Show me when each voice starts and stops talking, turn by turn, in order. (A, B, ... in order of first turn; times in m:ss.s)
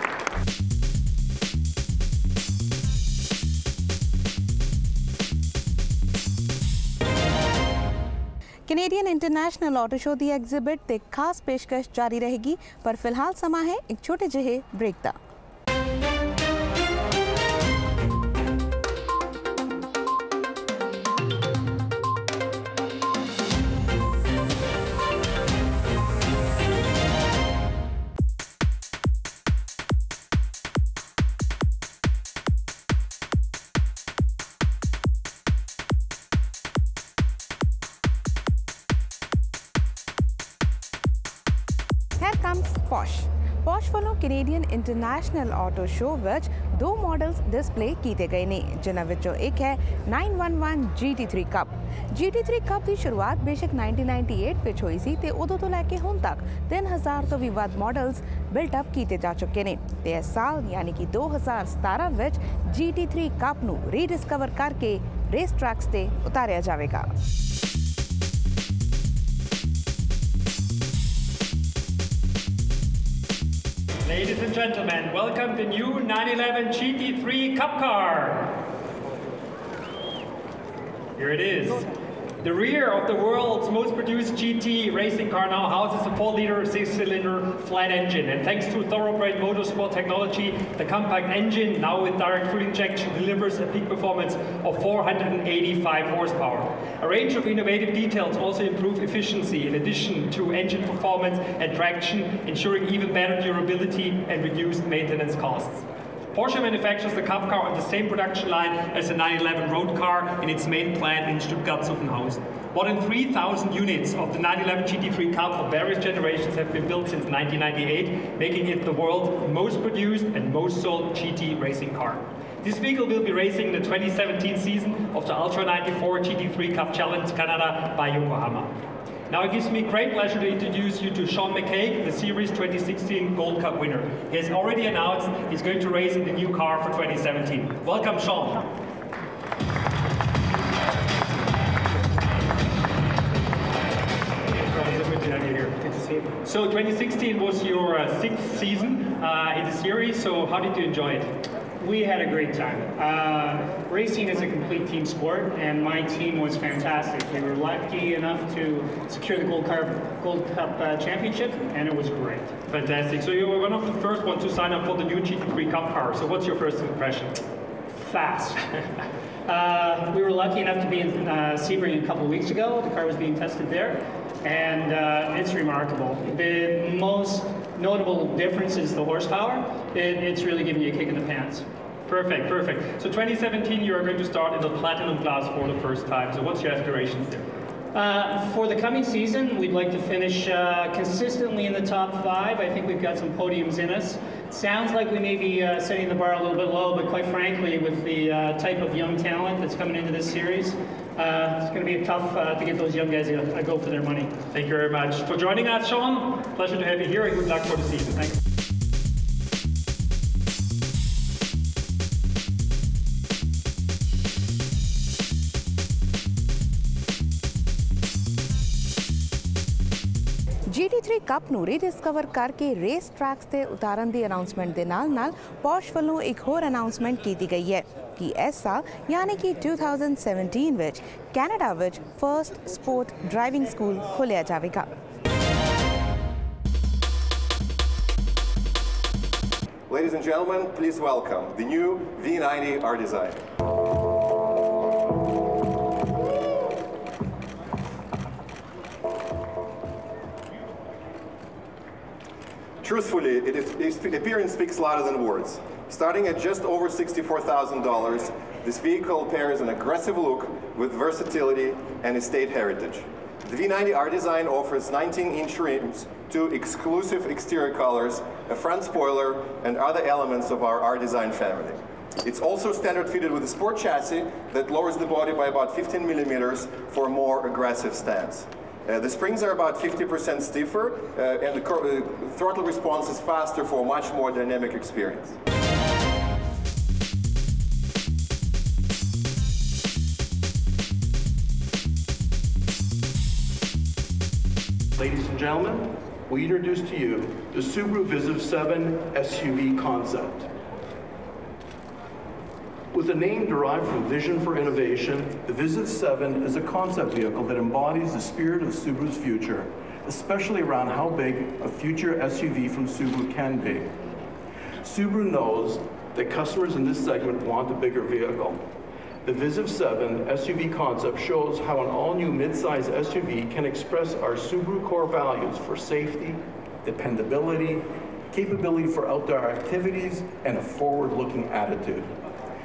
0:08.7-0:15.2 A
0:42.2-1:07.1 A
1:14.0-1:18.6 B
1:21.2-1:21.9 B
1:22.4-2:18.6 B
2:24.6-2:25.8 B
2:25.8-2:26.4 C
2:26.4-2:31.3 B
2:31.8-2:42.5 C
2:42.7-2:47.4 B
2:48.0-2:48.6 C
2:49.5-3:01.6 C
3:02.1-3:07.5 B
3:07.9-3:24.4 C
3:24.5-3:28.3 B
3:40.7-3:54.9 A
3:59.9-4:03.4 D
4:12.8-4:45.4 D
4:55.0-5:00.5 E
5:02.9-5:13.9 E
5:14.8-5:18.6 E
5:19.2-5:32.1 E